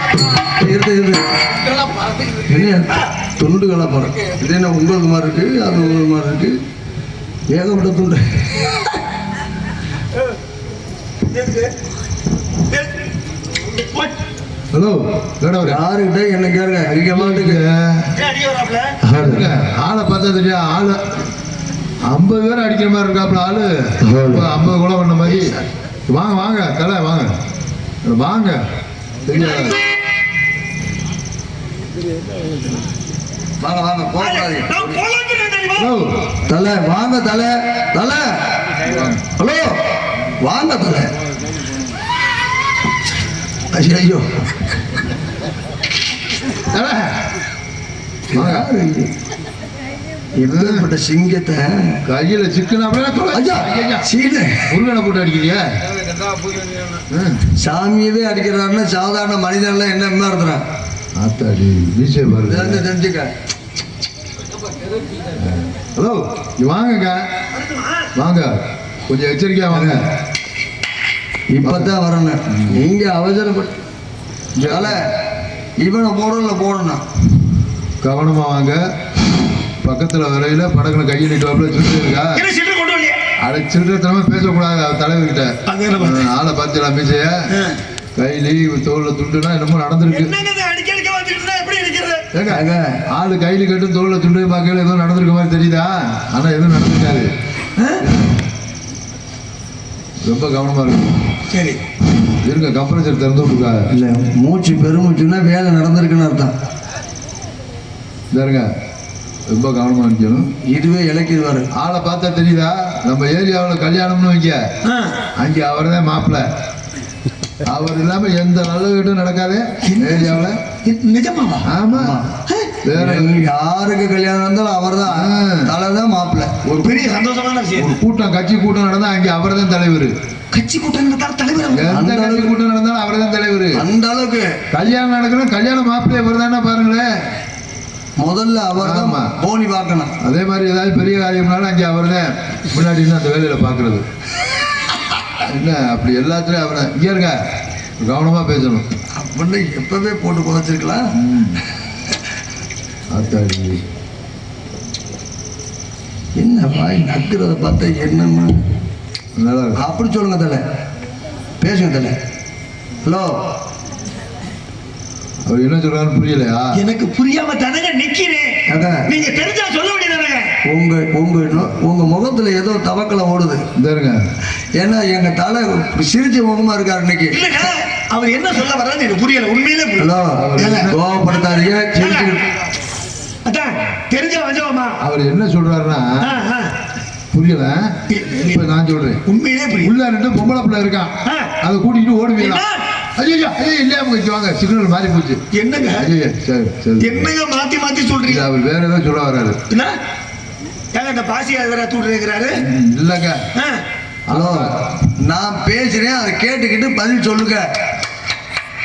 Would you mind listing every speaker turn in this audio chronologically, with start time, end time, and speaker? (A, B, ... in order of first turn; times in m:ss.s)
0:00.4-0:01.2 A
0:02.2-0:06.6 A
0:07.5-0:08.7 A
0:11.3-0:11.7 B
0:14.7-0:15.8 C
0:15.6-0:17.6 A
0:16.9-0:18.1 C
0:18.1-0:18.9 B
0:19.0-0:21.0 C
0:19.1-0:19.5 A
0:22.0-0:25.5 C
0:24.0-0:24.5 A
0:25.2-0:25.6 A
0:26.1-0:27.3 C
0:28.0-0:28.6 C
0:29.2-0:29.8 C
0:33.6-0:34.9 A
0:34.2-0:36.0 B
0:35.8-0:36.1 C
0:36.5-0:38.8 A
0:38.8-0:39.2 C
0:39.3-0:39.8 A
0:40.4-0:41.1 A
0:43.7-0:44.2 A
0:46.6-0:47.0 C
0:48.3-0:49.1 A
0:48.3-0:48.7 C
0:50.3-0:52.0 A
0:50.4-0:50.9 C
0:52.1-0:54.1 C
0:53.3-0:54.7 A
0:54.7-0:55.6 C
0:57.1-0:57.4 C
0:57.5-1:00.6 A
1:01.2-1:02.9 C
1:02.5-1:03.3 A
1:05.4-1:07.2 C
1:07.6-1:08.0 B
1:08.2-1:08.5 C
1:09.1-1:10.0 C
1:11.5-1:13.7 A
1:11.6-1:11.9 C
1:12.5-1:12.8 C
1:14.6-1:15.1 A
1:14.6-1:15.0 C
1:15.8-1:17.0 A
1:18.0-1:18.8 C
1:19.8-1:22.4 C
1:22.3-1:23.2 B
1:23.4-1:27.4 C
1:25.7-1:26.3 B
1:28.2-1:30.3 C
1:30.1-1:32.2 B
1:32.3-1:37.3 C
1:32.5-1:33.0 A
1:37.8-1:38.0 B
1:40.2-1:41.2 C
1:41.5-1:41.8 B
1:42.4-1:43.8 C
1:43.9-1:46.5 A
1:48.3-1:48.7 C
1:49.5-1:50.5 C
1:50.4-1:51.7 A
1:51.8-1:54.6 C
1:54.8-1:55.2 B
1:55.4-1:56.5 C
1:57.6-2:00.6 C
1:59.8-2:01.7 B
2:01.7-2:02.2 C
2:01.9-2:02.3 A
2:02.8-2:03.3 C
2:02.9-2:06.5 A
2:05.1-2:05.6 C
2:06.6-2:07.2 C
2:06.8-2:08.0 B
2:07.8-2:10.2 C
2:10.5-2:11.9 B
2:11.7-2:13.8 C
2:11.9-2:12.5 A
2:13.7-2:14.6 A
2:14.7-2:17.1 C
2:18.2-2:20.1 A
2:18.8-2:19.3 C
2:20.2-2:24.0 C
2:25.4-2:27.4 C
2:28.0-2:28.9 C
2:29.2-2:31.1 A
2:31.2-2:31.6 C
2:33.1-2:33.8 C
2:36.3-2:38.6 A
2:39.4-2:39.8 C
2:39.8-2:40.6 A
2:41.6-2:42.1 A
2:43.0-2:43.3 A
2:45.5-2:46.8 C
2:46.7-2:50.5 B
2:48.7-2:49.0 A
2:50.6-2:53.6 A
2:53.8-2:54.2 C
2:54.8-2:57.4 A
2:57.3-3:00.9 B
3:00.0-3:02.5 A
3:00.4-3:00.9 C
3:01.9-3:02.4 B
3:03.5-3:05.0 B
3:05.0-3:06.3 C
3:06.2-3:06.7 B
3:07.3-3:09.2 C
3:08.1-3:08.6 B
3:09.3-3:09.9 B
3:09.8-3:12.6 C
3:11.2-3:11.5 B
3:12.4-3:12.8 B
3:13.2-3:15.4 C
3:15.5-3:16.1 B
3:16.0-3:17.3 C
3:17.0-3:18.5 B
3:18.3-3:19.6 C
3:19.7-3:20.0 B
3:20.9-3:22.6 B
3:22.6-3:23.4 C
3:23.6-3:23.8 B
3:24.3-3:24.8 C
3:24.3-3:27.7 A